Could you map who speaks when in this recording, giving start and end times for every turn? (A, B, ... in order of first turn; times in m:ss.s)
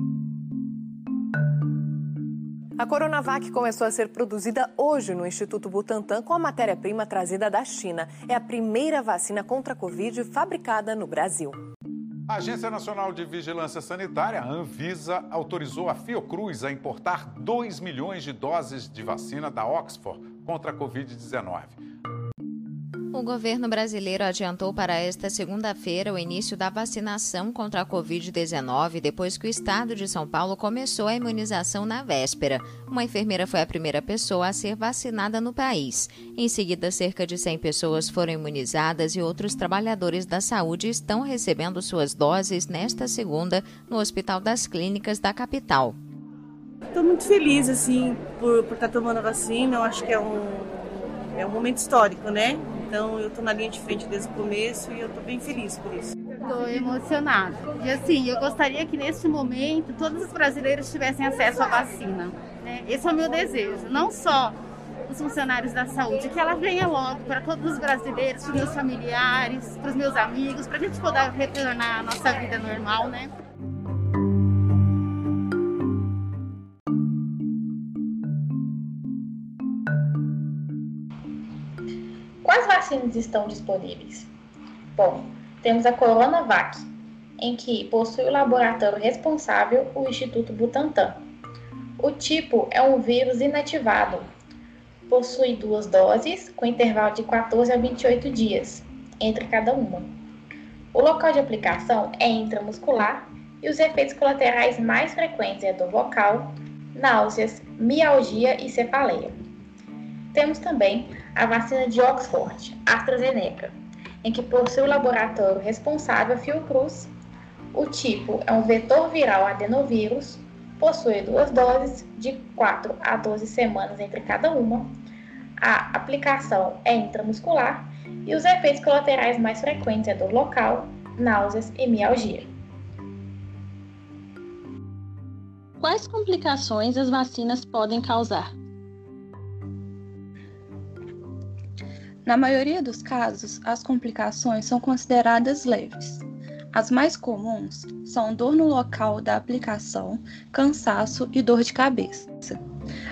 0:02.8-0:11.6 A
0:12.3-0:21.8 B
0:23.1-0:46.0 C
0:46.9-0:56.1 D
0:56.4-1:04.6 E
1:05.1-1:13.3 E
1:22.4-1:24.3 F
1:25.0-1:26.9 F
1:27.4-1:31.2 F
1:32.0-1:34.3 F
1:35.1-1:40.1 F
1:40.9-1:49.3 F
1:50.3-1:57.1 F
1:57.7-2:04.9 F
2:05.6-2:12.5 F
2:15.8-2:18.5 G
2:22.2-2:32.6 H